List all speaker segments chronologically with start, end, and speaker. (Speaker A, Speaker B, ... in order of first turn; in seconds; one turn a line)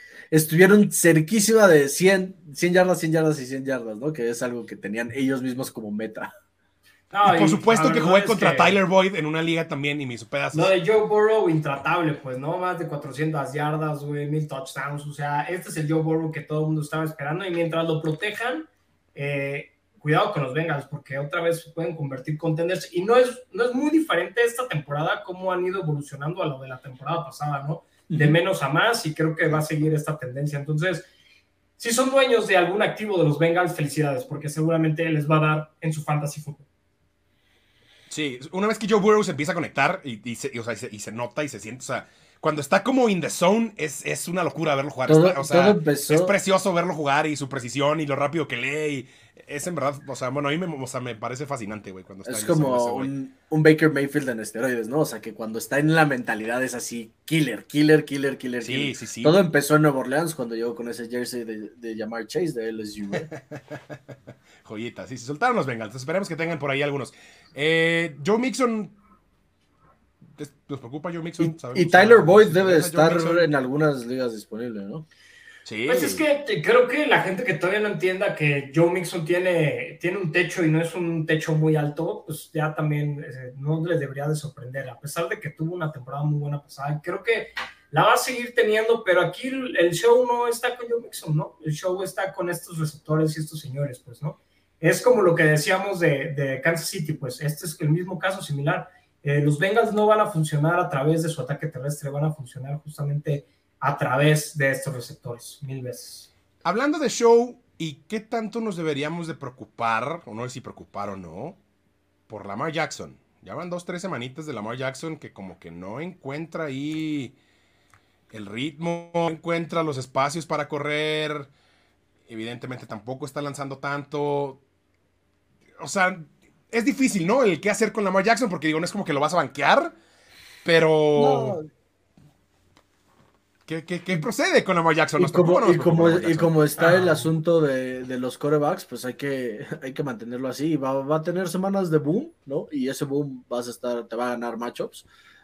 Speaker A: 0.3-6.3
Speaker B: 7.1-8.8
Speaker C: 7.2-10.7
Speaker B: 10.5-31.1
Speaker A: 28.1-28.4
Speaker B: 31.8-36.7
Speaker C: 38.1-53.1
Speaker A: 45.1-46.3
Speaker A: 52.2-63.3
Speaker C: 58.6-59.4
Speaker C: 63.2-64.0
Speaker C: 64.6-69.0
Speaker C: 70.4-73.5
Speaker A: 71.4-75.0
Speaker C: 75.7-76.2
Speaker B: 75.9-106.3
Speaker C: 106.6-111.6
Speaker C: 112.3-117.3
Speaker C: 118.3-121.5
Speaker C: 122.3-124.6
Speaker C: 125.8-129.9
Speaker C: 130.6-131.6
Speaker A: 131.2-131.7
Speaker C: 133.7-136.5
Speaker A: 135.2-145.1